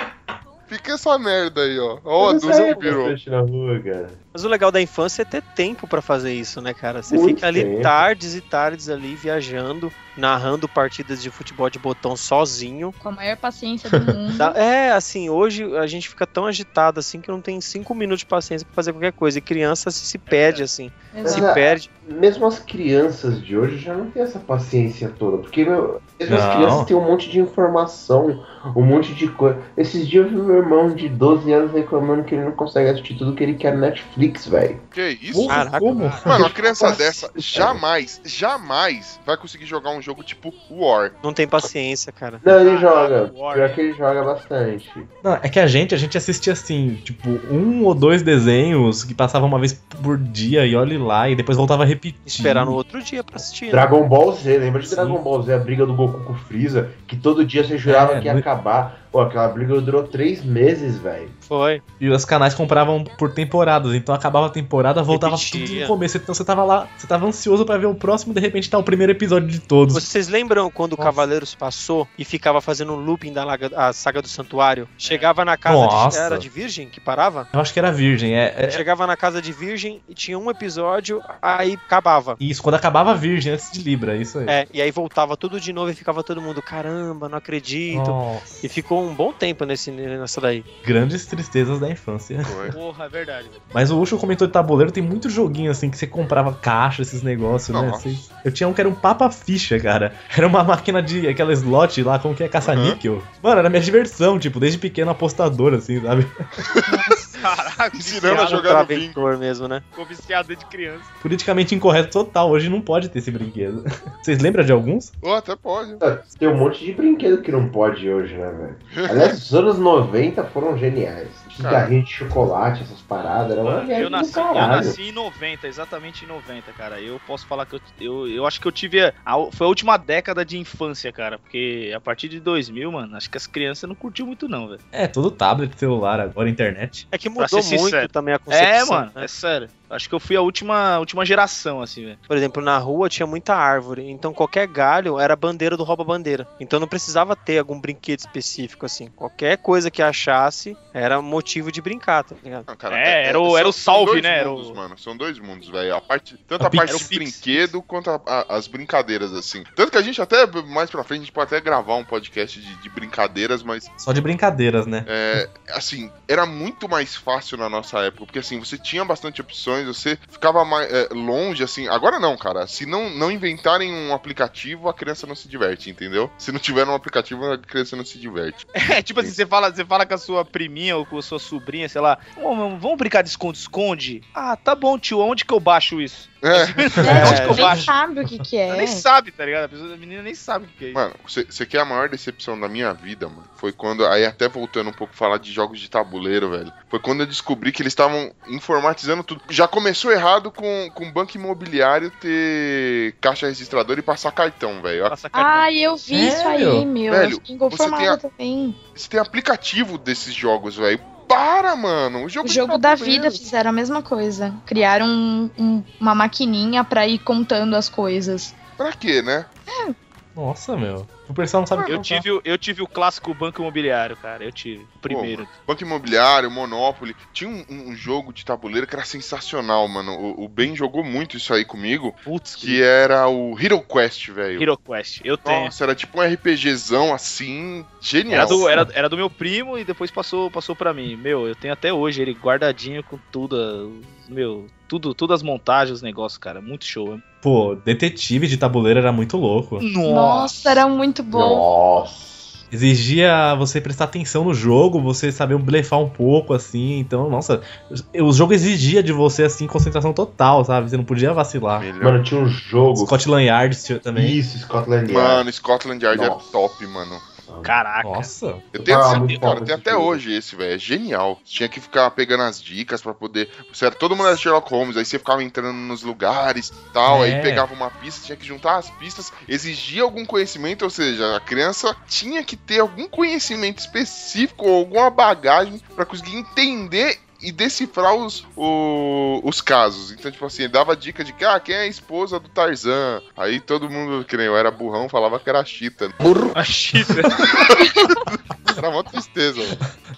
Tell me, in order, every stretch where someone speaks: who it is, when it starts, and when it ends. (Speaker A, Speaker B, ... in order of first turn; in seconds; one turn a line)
Speaker A: 0.7-3.1
Speaker B: 2.2-4.2
Speaker C: 4.3-13.0
Speaker B: 7.1-8.0
Speaker D: 13.0-14.6
Speaker E: 13.9-14.1
Speaker C: 14.4-21.9
Speaker F: 20.3-20.7
Speaker D: 21.1-21.6
Speaker B: 21.2-34.8
Speaker E: 26.3-26.9
Speaker A: 34.9-35.6
Speaker E: 35.3-36.5
Speaker C: 35.5-35.9
Speaker F: 35.8-36.4
Speaker A: 36.3-41.1
Speaker B: 36.3-37.8
Speaker C: 41.2-42.4
Speaker B: 42.4-45.1
Speaker F: 42.5-43.8
Speaker E: 45.2-52.8
Speaker C: 52.3-53.9
Speaker B: 53.7-61.3
Speaker E: 54.8-55.2
Speaker E: 57.9-58.5
Speaker C: 61.5-61.8
Speaker E: 62.0-70.0
Speaker C: 65.1-66.0
Speaker C: 69.9-77.5
Speaker E: 71.0-71.2
Speaker F: 75.0-75.3
Speaker E: 75.7-76.5
Speaker E: 77.5-78.8
Speaker C: 78.7-82.4
Speaker E: 82.4-84.6
Speaker C: 84.5-90.7
Speaker E: 87.9-88.6
Speaker E: 90.8-92.6
Speaker A: 92.5-92.8
Speaker F: 92.7-93.6
Speaker E: 93.7-106.3
Speaker A: 97.7-98.2
Speaker A: 102.6-103.0
Speaker A: 106.7-107.0
Speaker D: 106.9-107.3
Speaker F: 107.4-108.7
Speaker A: 107.9-109.3
Speaker C: 108.3-109.8
Speaker F: 109.9-111.1
Speaker E: 111.2-115.1
Speaker A: 115.2-116.0
Speaker B: 116.0-125.0
Speaker A: 118.9-119.4
Speaker A: 121.5-121.9
Speaker F: 123.6-134.8
Speaker E: 134.9-137.1
Speaker C: 137.1-139.3
Speaker F: 137.4-142.2
Speaker C: 142.3-152.7
Speaker A: 152.7-163.9
Speaker F: 152.9-154.8
Speaker E: 156.6-157.1
Speaker F: 156.8-157.7
Speaker E: 164.0-165.4
Speaker A: 165.1-179.4
Speaker F: 178.8-187.9
Speaker A: 186.4-187.5
Speaker E: 187.0-187.9
Speaker D: 187.0-189.1
Speaker F: 188.7-191.0
Speaker A: 190.9-205.2
Speaker F: 205.1-205.7
Speaker D: 205.3-208.8
Speaker E: 206.1-206.9
Speaker A: 207.0-208.2
Speaker A: 208.9-213.4
Speaker D: 212.4-218.6
Speaker A: 218.8-219.5
Speaker D: 219.7-219.9
Speaker E: 220.3-222.2
Speaker F: 221.9-225.5
Speaker A: 225.1-234.7
Speaker F: 232.2-232.8
Speaker F: 234.6-235.7
Speaker A: 235.4-238.8
Speaker F: 238.3-247.2
Speaker E: 238.4-238.9
Speaker E: 247.4-249.9
Speaker F: 249.8-250.8
Speaker D: 250.0-251.7
Speaker B: 251.3-252.6
Speaker E: 252.7-261.9
Speaker A: 261.8-262.2
Speaker B: 262.0-263.2
Speaker E: 262.9-264.4
Speaker B: 264.1-265.4
Speaker A: 265.1-267.2
Speaker B: 266.1-266.7
Speaker B: 267.4-267.8
Speaker F: 267.6-268.3
Speaker E: 268.0-268.6
Speaker A: 268.7-296.1
Speaker B: 268.8-270.2
Speaker F: 269.0-269.4
Speaker E: 277.1-277.7
Speaker F: 296.5-297.4
Speaker A: 297.3-299.8
Speaker D: 297.7-298.2